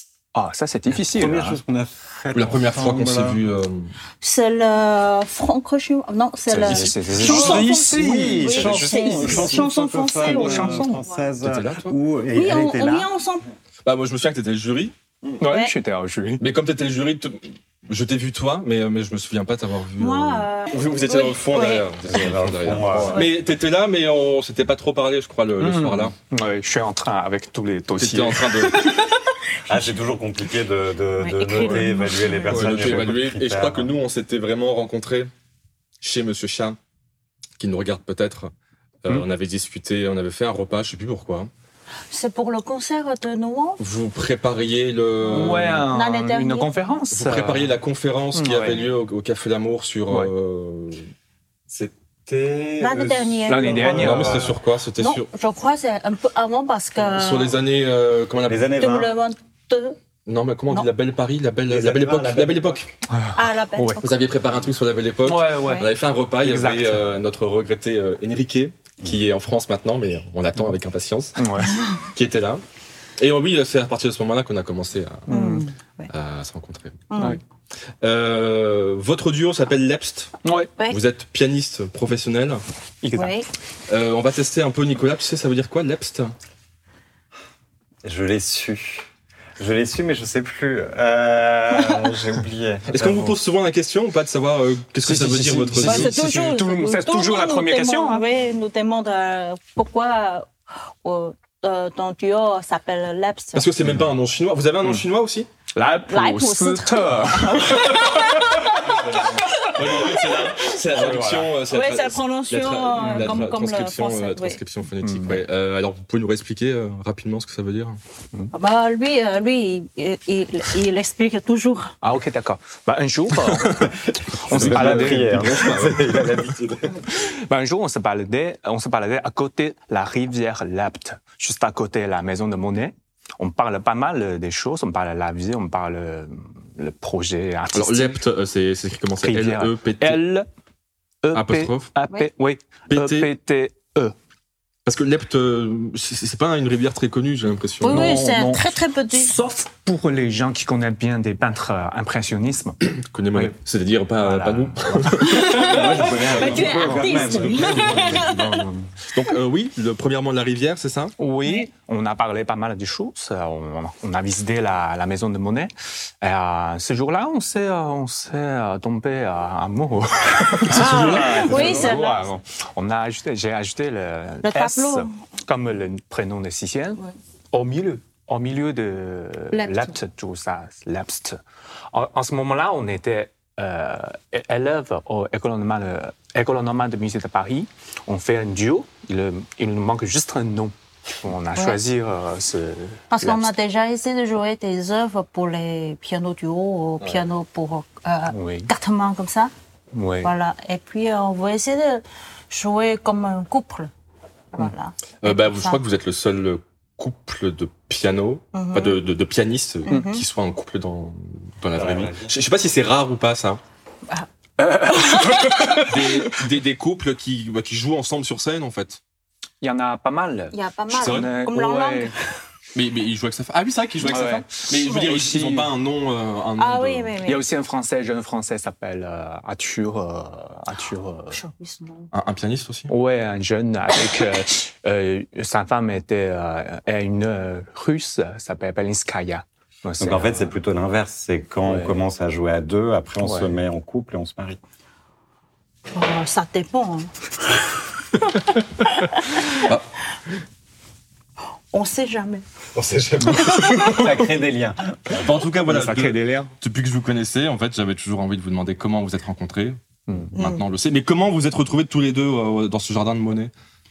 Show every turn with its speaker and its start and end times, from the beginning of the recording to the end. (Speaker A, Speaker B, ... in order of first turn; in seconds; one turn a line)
Speaker A: 0.3-1.6
Speaker B: 1.1-3.4
Speaker C: 2.3-4.0
Speaker D: 4.2-11.2
Speaker A: 6.5-9.7
Speaker C: 6.7-7.0
Speaker B: 7.2-13.1
Speaker A: 10.2-11.0
Speaker C: 11.4-11.9
Speaker D: 12.3-13.5
Speaker C: 13.8-14.9
Speaker A: 15.4-16.4
Speaker D: 15.5-15.8
Speaker C: 16.4-26.1
Speaker D: 20.0-21.9
Speaker B: 22.1-23.2
Speaker D: 22.8-23.4
Speaker A: 25.6-28.7
Speaker C: 28.0-28.9
Speaker D: 28.6-29.8
Speaker B: 29.7-33.9
Speaker D: 31.2-32.6
Speaker A: 31.6-31.9
Speaker A: 32.5-33.0
Speaker C: 32.5-35.3
Speaker C: 36.0-36.8
Speaker C: 37.6-38.5
Speaker C: 39.0-41.5
Speaker D: 42.1-43.8
Speaker C: 43.8-45.9
Speaker D: 45.2-46.7
Speaker A: 45.3-47.7
Speaker C: 47.1-51.1
Speaker A: 48.3-48.9
Speaker B: 51.7-54.6
Speaker D: 52.8-54.2
Speaker A: 53.5-54.5
Speaker C: 53.9-55.3
Speaker D: 55.0-57.5
Speaker C: 57.1-58.7
Speaker B: 58.5-59.1
Speaker D: 58.7-60.0
Speaker C: 60.2-62.9
Speaker B: 61.7-62.8
Speaker A: 63.1-64.0
Speaker D: 63.4-64.2
Speaker C: 64.0-72.6
Speaker A: 65.2-67.1
Speaker D: 65.6-65.9
Speaker A: 71.4-71.8
Speaker C: 73.2-75.3
Speaker A: 75.3-75.7
Speaker D: 75.3-76.1
Speaker C: 76.1-77.3
Speaker D: 77.1-77.4
Speaker C: 78.0-80.3
Speaker A: 80.4-80.7
Speaker C: 80.9-82.6
Speaker A: 83.0-83.3
Speaker D: 83.1-83.5
Speaker C: 83.9-86.3
Speaker B: 88.0-89.1
Speaker B: 89.6-93.4
Speaker D: 91.7-92.1
Speaker C: 92.9-96.2
Speaker A: 95.0-98.2
Speaker D: 95.8-100.5
Speaker D: 101.0-103.7
Speaker C: 103.5-105.5
Speaker A: 105.8-108.8
Speaker D: 106.1-109.4
Speaker C: 108.8-118.0
Speaker A: 110.1-111.5
Speaker D: 111.7-114.6
Speaker A: 113.0-113.4
Speaker A: 115.0-115.4
Speaker D: 118.5-122.0
Speaker A: 122.0-123.9
Speaker C: 123.4-126.6
Speaker A: 124.5-125.7
Speaker B: 124.5-127.0
Speaker A: 127.0-138.2
Speaker C: 137.7-140.2
Speaker A: 139.2-140.5
Speaker A: 141.2-144.2
Speaker C: 141.3-141.9
Speaker C: 142.9-143.3
Speaker C: 144.9-148.1
Speaker D: 147.8-149.3
Speaker A: 147.8-148.6
Speaker B: 147.9-148.6
Speaker A: 149.1-152.8
Speaker C: 152.8-158.1
Speaker A: 154.2-155.9
Speaker D: 155.2-158.6
Speaker B: 155.4-158.7
Speaker A: 156.6-158.7
Speaker C: 159.1-161.2
Speaker A: 161.2-177.0
Speaker D: 170.7-172.3
Speaker B: 170.8-172.0
Speaker D: 174.4-175.2
Speaker A: 177.5-181.4
Speaker D: 179.5-179.9
Speaker A: 181.9-193.5
Speaker D: 193.1-199.5
Speaker A: 198.3-198.7
Speaker A: 199.9-200.3
Speaker D: 200.2-203.9
Speaker D: 204.5-205.8
Speaker C: 205.2-213.6
Speaker D: 208.5-209.0
Speaker D: 209.8-210.2
Speaker B: 211.8-212.3
Speaker A: 214.6-216.3
Speaker D: 214.9-215.8
Speaker C: 215.8-219.0
Speaker A: 219.6-222.2
Speaker D: 220.5-222.3
Speaker C: 220.9-221.3
Speaker C: 222.7-227.1
Speaker A: 224.0-225.7
Speaker D: 226.6-227.4
Speaker A: 227.2-231.4
Speaker D: 231.3-232.1
Speaker C: 232.1-232.9
Speaker A: 232.9-240.5
Speaker B: 240.0-244.6
Speaker A: 241.7-241.9
Speaker A: 243.2-243.5
Speaker D: 245.9-247.1
Speaker D: 249.1-249.5
Speaker C: 249.6-249.9
Speaker D: 251.7-252.4
Speaker B: 252.8-255.3
Speaker C: 253.2-254.2
Speaker C: 255.1-263.5
Speaker A: 255.7-256.5
Speaker A: 260.1-260.3
Speaker D: 260.4-260.6